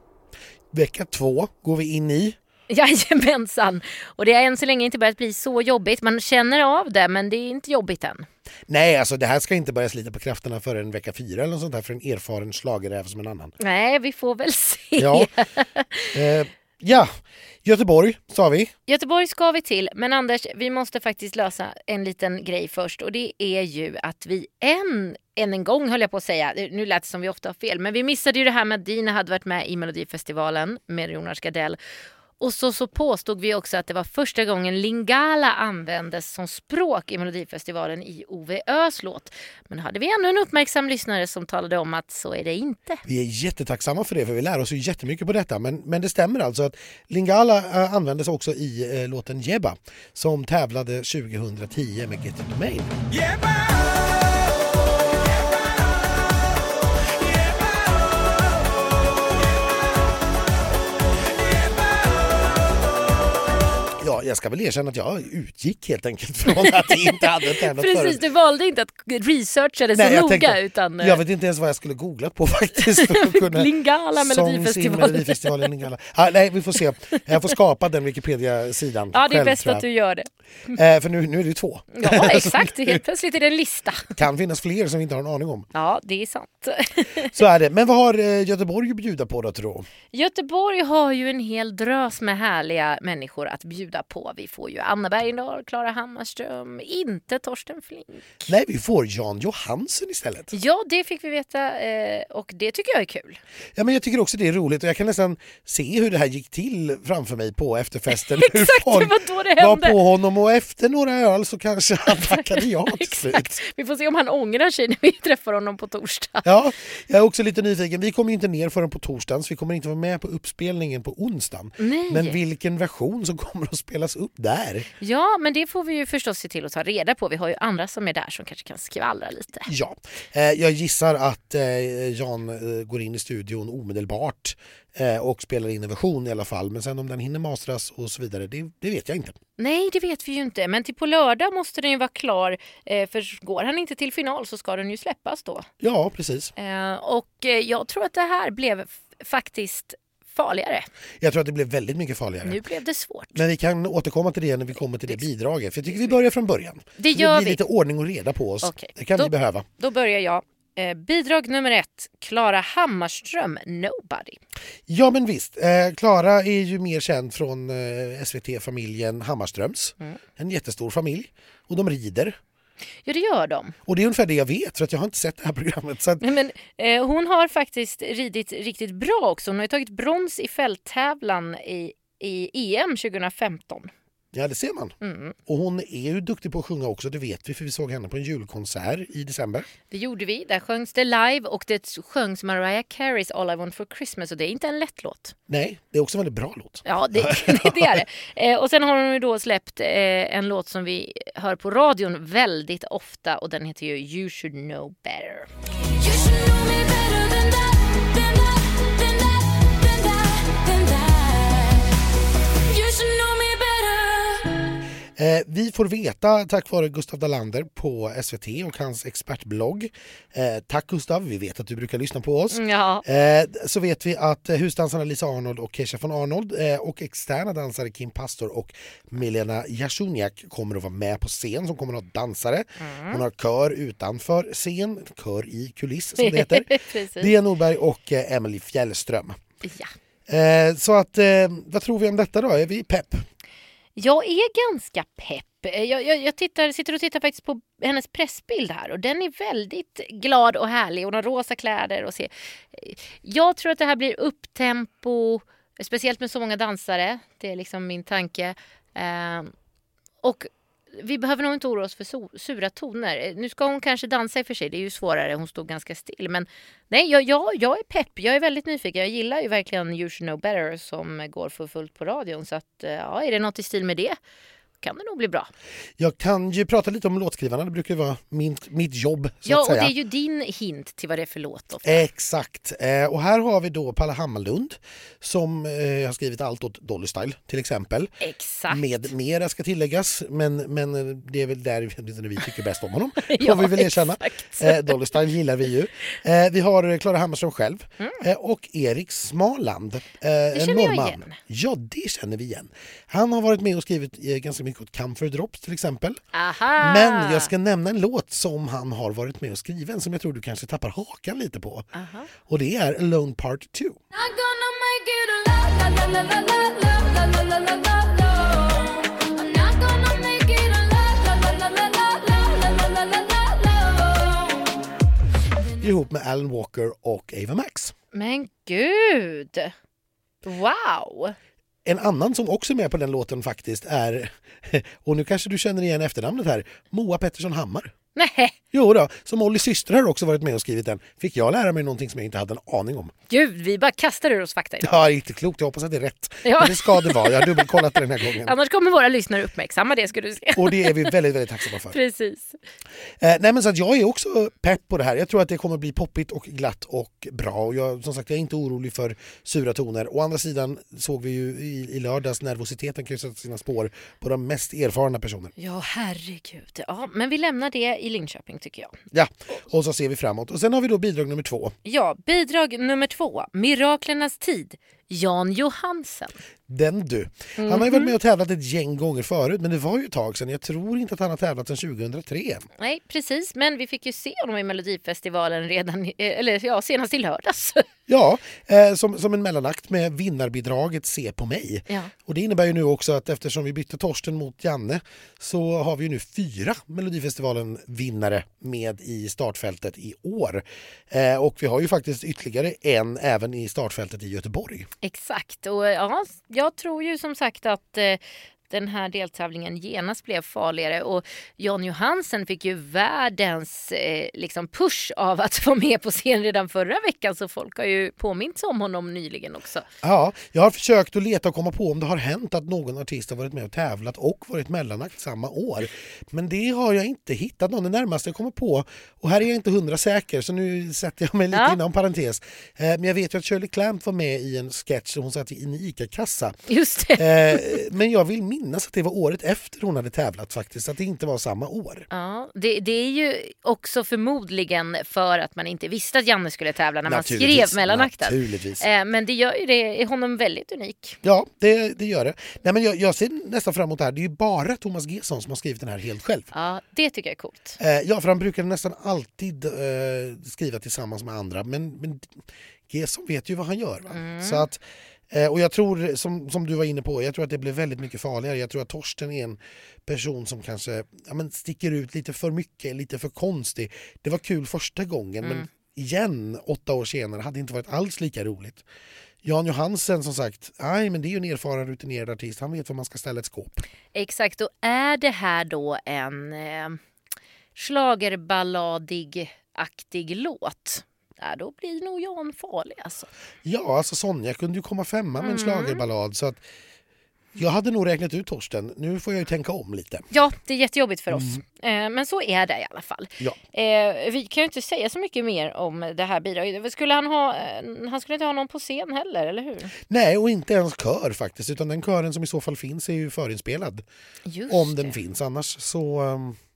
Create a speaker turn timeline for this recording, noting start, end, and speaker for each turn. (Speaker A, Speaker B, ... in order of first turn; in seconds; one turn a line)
Speaker A: 0.7-2.4
Speaker B: 2.7-8.3
Speaker A: 8.7-13.5
Speaker B: 13.6-16.2
Speaker A: 14.9-15.3
Speaker A: 16.1-17.1
Speaker A: 17.6-18.7
Speaker B: 18.9-31.8
Speaker B: 32.4-43.0
Speaker A: 43.0-52.9
Speaker C: 53.1-56.1
Speaker C: 57.0-58.0
Speaker C: 61.3-62.4
Speaker A: 64.0-68.2
Speaker B: 66.6-71.2
Speaker A: 69.9-79.8
Speaker B: 72.8-75.7
Speaker B: 79.1-80.8
Speaker A: 80.7-83.0
Speaker B: 81.9-84.2
Speaker A: 84.1-85.7
Speaker B: 85.7-87.3
Speaker A: 87.3-89.9
Speaker B: 90.1-98.5
Speaker A: 98.5-100.5
Speaker B: 100.5-103.4
Speaker A: 103.7-113.6
Speaker B: 108.1-110.0
Speaker B: 112.1-116.4
Speaker A: 116.4-124.9
Speaker B: 121.8-122.4
Speaker B: 125.0-129.7
Speaker A: 129.7-139.4
Speaker B: 139.6-145.7
Speaker A: 145.8-146.5
Speaker B: 146.6-150.9
Speaker A: 151.2-152.6
Speaker B: 152.4-153.4
Speaker A: 153.3-159.7
Speaker B: 157.0-157.6
Speaker B: 158.6-164.4
Speaker A: 164.9-172.4
Speaker B: 173.1-173.7
Speaker A: 173.8-176.2
Speaker B: 176.2-183.9
Speaker A: 184.3-189.7
Speaker B: 185.0-185.3
Speaker B: 189.9-195.3
Speaker A: 195.5-198.0
Speaker B: 196.8-205.5
Speaker C: 206.0-211.7
Speaker C: 212.7-214.4
Speaker B: 212.7-214.0
Speaker A: 215.2-239.4
Speaker B: 222.5-223.0
Speaker B: 232.8-233.2
Speaker B: 236.2-237.3
Speaker B: 239.6-239.9
Speaker A: 240.3-243.2
Speaker B: 243.9-259.5
Speaker B: 260.2-274.2
Speaker B: 274.8-275.5
Speaker A: 276.0-279.9
Speaker B: 279.4-282.0
Speaker A: 281.8-288.1
Speaker B: 288.2-288.8
Speaker A: 288.7-306.2
Speaker B: 293.2-294.9
Speaker B: 300.5-301.4
Speaker B: 306.3-307.5
Speaker A: 306.8-311.9
Speaker B: 311.9-312.3
Speaker A: 312.4-314.0
Speaker B: 314.1-324.6
Speaker A: 325.8-327.9
Speaker B: 328.1-329.7
Speaker B: 330.4-331.4
Speaker A: 331.8-337.9
Speaker B: 338.1-338.6
Speaker A: 338.7-343.1
Speaker B: 343.3-345.0
Speaker A: 344.8-348.5
Speaker B: 346.4-351.2
Speaker A: 350.5-351.9
Speaker B: 351.9-352.6
Speaker A: 353.2-365.5
Speaker B: 365.6-368.9
Speaker A: 369.1-371.7
Speaker B: 371.8-376.3
Speaker A: 376.7-382.6
Speaker B: 377.6-378.1
Speaker B: 382.8-387.9
Speaker A: 388.1-404.9
Speaker B: 405.0-419.9
Speaker A: 420.0-436.5
Speaker B: 431.5-431.8
Speaker B: 436.7-437.8
Speaker A: 437.1-442.1
Speaker B: 442.1-451.2
Speaker A: 447.1-448.8
Speaker A: 451.2-456.5
Speaker B: 456.5-457.8
Speaker A: 457.8-478.8
Speaker B: 464.1-464.6
Speaker B: 475.4-475.7
Speaker A: 479.4-483.8
Speaker B: 484.1-487.0
Speaker B: 487.7-493.3
Speaker A: 493.6-496.6
Speaker B: 495.4-496.0
Speaker A: 497.5-500.2
Speaker B: 500.3-509.9
Speaker A: 501.3-501.6
Speaker A: 510.1-514.0
Speaker B: 514.5-515.1
Speaker A: 514.7-516.6